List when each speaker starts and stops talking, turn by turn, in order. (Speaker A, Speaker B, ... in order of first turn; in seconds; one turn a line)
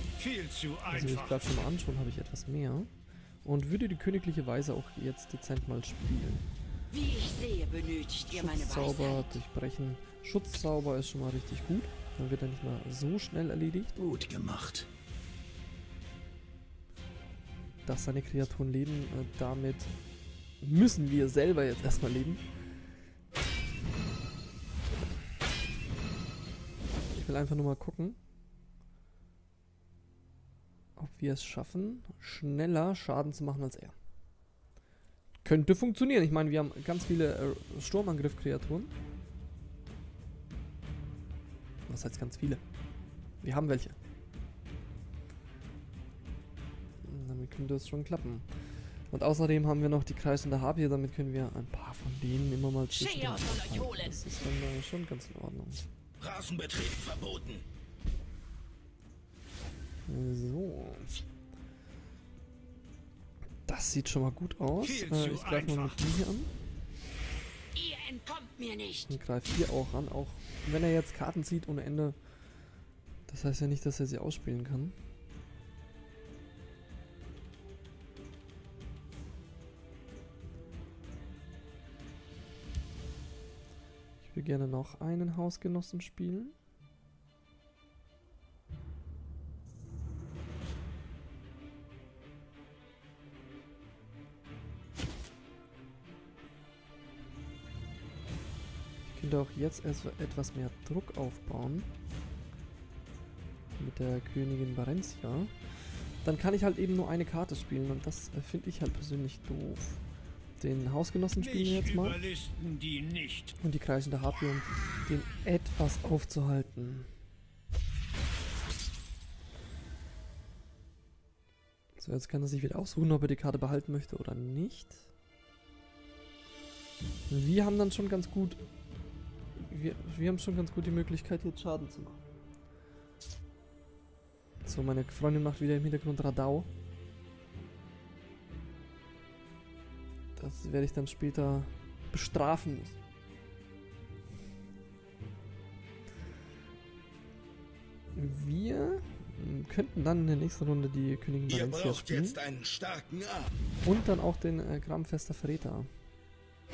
Speaker A: 0.2-1.4
Speaker B: 0.9-2.9
Speaker B: 3.4-6.4
Speaker C: 6.9-9.2
Speaker B: 8.3-14.0
Speaker D: 14.0-14.9
Speaker B: 17.8-19.9
Speaker B: 20.6-22.4
Speaker B: 27.1-28.2
Speaker B: 31.0-34.0
Speaker B: 35.4-38.9
Speaker B: 41.9-42.6
Speaker B: 43.4-44.0
Speaker B: 47.0-48.5
Speaker B: 49.1-55.8
Speaker C: 52.9-54.1
Speaker D: 56.2-57.6
Speaker B: 60.1-61.1
Speaker B: 63.6-66.5
Speaker A: 64.8-66.0
Speaker C: 67.7-69.1
Speaker B: 69.1-72.2
Speaker B: 73.3-75.0
Speaker B: 84.2-86.5
Speaker B: 99.0-101.9
Speaker B: 103.8-105.5
Speaker B: 106.2-110.0
Speaker B: 110.6-112.2
Speaker A: 111.4-113.5
Speaker B: 113.6-117.1
Speaker B: 122.0-125.1
Speaker B: 127.3-128.6
Speaker B: 129.6-132.2
Speaker B: 134.6-136.7
Speaker B: 140.3-143.0
Speaker B: 148.1-152.4
Speaker D: 151.5-153.5
Speaker B: 153.8-155.9